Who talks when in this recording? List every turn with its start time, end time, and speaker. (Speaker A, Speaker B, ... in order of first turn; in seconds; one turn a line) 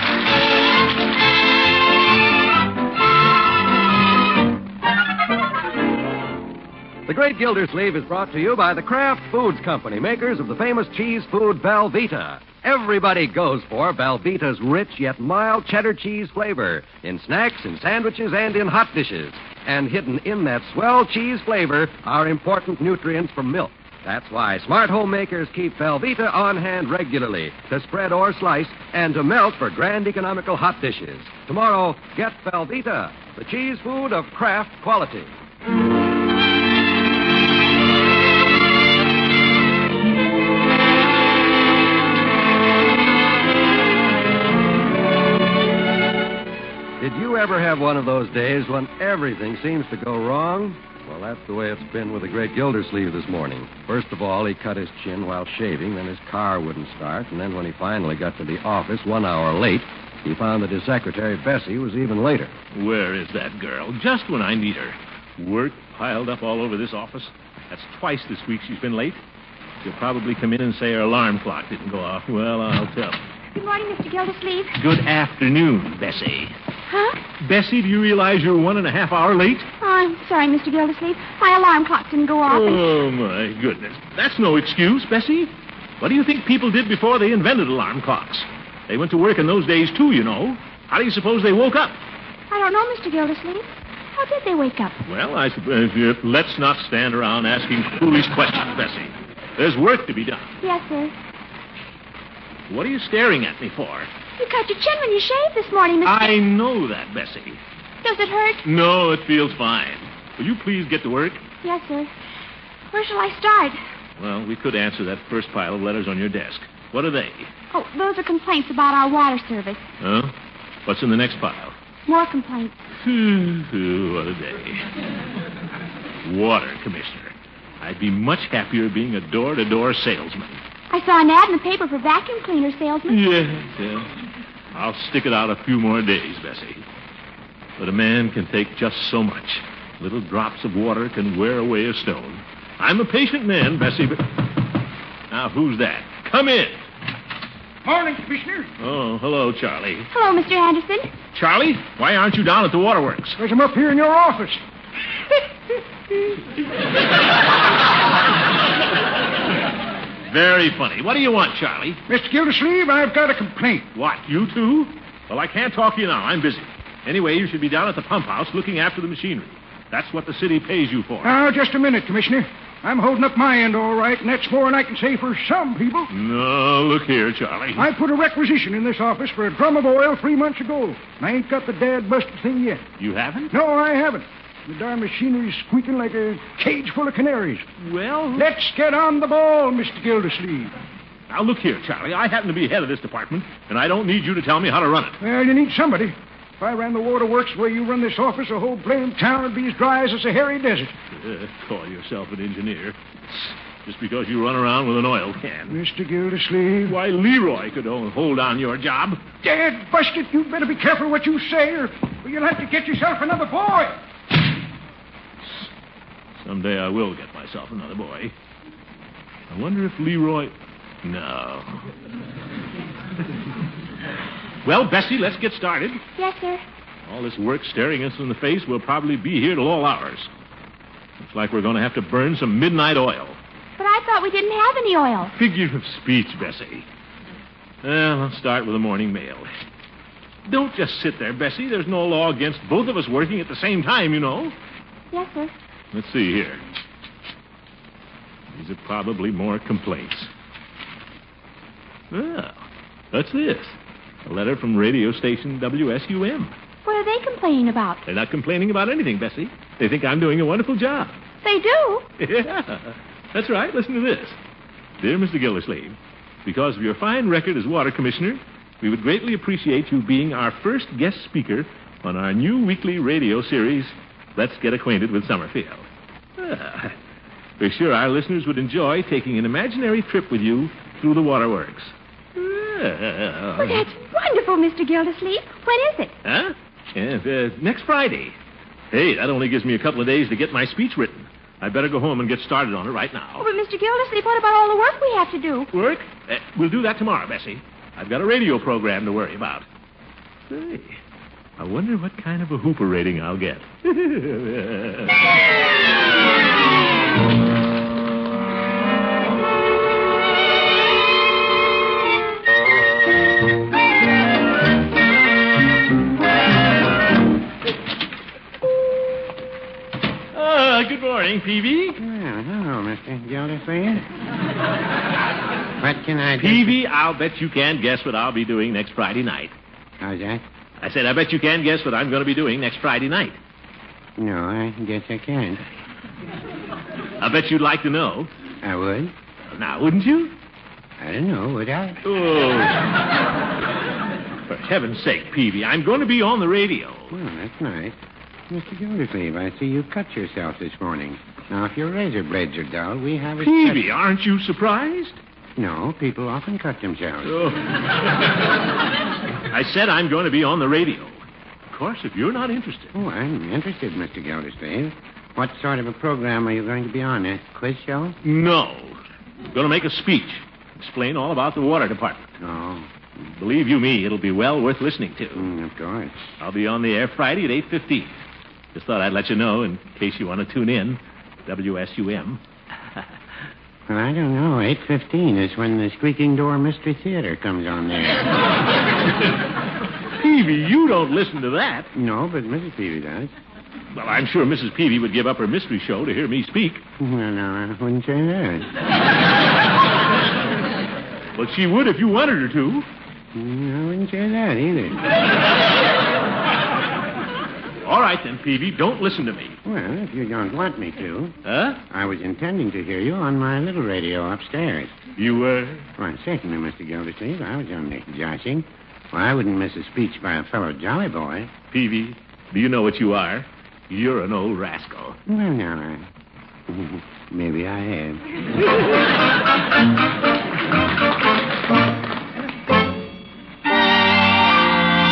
Speaker A: 7.1-35.3
Speaker A: 47.0-62.5
Speaker B: 62.7-69.2
Speaker B: 69.8-73.2
Speaker C: 73.5-74.8
Speaker B: 74.8-76.5
Speaker C: 76.9-77.2
Speaker B: 77.4-79.7
Speaker C: 79.8-82.9
Speaker B: 82.5-92.0
Speaker C: 92.5-95.0
Speaker B: 95.1-100.6
Speaker C: 100.6-101.1
Speaker B: 102.7-104.1
Speaker C: 104.4-106.3
Speaker B: 106.0-107.6
Speaker C: 108.0-108.6
Speaker B: 108.6-111.4
Speaker C: 111.6-112.1
Speaker C: 112.9-113.8
Speaker B: 114.2-117.5
Speaker C: 117.7-119.8
Speaker B: 120.0-120.3
Speaker B: 120.9-121.8
Speaker C: 122.1-122.8
Speaker B: 123.0-124.9
Speaker B: 126.2-130.6
Speaker C: 130.9-133.2
Speaker B: 133.1-134.1
Speaker B: 134.7-136.8
Speaker B: 137.8-144.5
Speaker B: 145.3-146.8
Speaker D: 147.8-148.7
Speaker B: 148.8-150.1
Speaker C: 150.1-151.1
Speaker B: 151.3-153.4
Speaker D: 153.4-154.6
Speaker B: 160.3-162.0
Speaker D: 162.1-163.8
Speaker B: 163.9-171.3
Speaker D: 171.2-176.1
Speaker B: 176.1-177.9
Speaker D: 177.8-182.8
Speaker B: 183.0-183.5
Speaker D: 183.5-187.7
Speaker B: 187.8-188.5
Speaker D: 188.3-190.7
Speaker B: 191.3-195.2
Speaker D: 195.2-200.9
Speaker B: 201.1-205.8
Speaker D: 205.7-207.0
Speaker B: 206.9-209.2
Speaker D: 209.4-213.9
Speaker B: 216.4-218.3
Speaker B: 219.5-220.5
Speaker B: 221.0-221.9
Speaker B: 224.6-226.0
Speaker C: 226.2-226.6
Speaker B: 227.1-230.3
Speaker B: 231.2-233.4
Speaker C: 233.8-235.3
Speaker B: 235.3-236.9
Speaker B: 237.8-239.5
Speaker B: 240.5-244.5
Speaker C: 245.1-245.5
Speaker B: 245.9-246.6
Speaker B: 248.5-250.3
Speaker B: 252.1-256.5
Speaker C: 256.9-258.0
Speaker B: 258.1-261.2
Speaker C: 261.4-262.1
Speaker B: 262.2-264.4
Speaker B: 265.0-275.9
Speaker B: 276.4-276.9
Speaker B: 277.6-283.8
Speaker C: 283.6-286.1
Speaker B: 286.2-288.4
Speaker B: 288.9-293.4
Speaker C: 293.4-295.7
Speaker B: 295.7-299.7
Speaker B: 300.5-301.0
Speaker B: 301.6-305.1
Speaker B: 320.3-322.0
Speaker E: 322.0-324.1
Speaker E: 325.8-326.8
Speaker B: 326.4-329.5
Speaker E: 330.0-330.4
Speaker B: 330.8-333.4
Speaker E: 334.2-335.6
Speaker B: 337.2-338.3
Speaker E: 338.6-339.1
Speaker B: 339.5-340.4
Speaker E: 341.0-342.0
Speaker B: 342.0-342.9
Speaker B: 344.5-347.1
Speaker E: 347.1-348.0
Speaker E: 348.5-353.9
Speaker B: 353.4-355.2
Speaker E: 355.6-357.5
Speaker B: 357.2-357.8
Speaker B: 359.5-362.9
Speaker E: 362.9-368.1
Speaker B: 368.2-369.0
Speaker B: 369.5-372.3
Speaker E: 372.4-372.9
Speaker B: 373.3-375.5
Speaker E: 375.4-376.2
Speaker B: 376.4-378.1
Speaker B: 378.7-382.4
Speaker E: 383.9-388.4
Speaker B: 390.2-391.9
Speaker E: 391.9-393.3
Speaker B: 393.9-396.8
Speaker E: 397.0-398.7
Speaker B: 401.4-402.9
Speaker E: 403.4-405.1
Speaker B: 407.8-409.6
Speaker E: 409.6-411.4
Speaker B: 411.4-411.8
Speaker E: 411.9-414.9
Speaker B: 415.2-415.9
Speaker E: 416.0-421.5
Speaker B: 421.7-425.2
Speaker E: 425.3-426.1
Speaker E: 426.7-428.2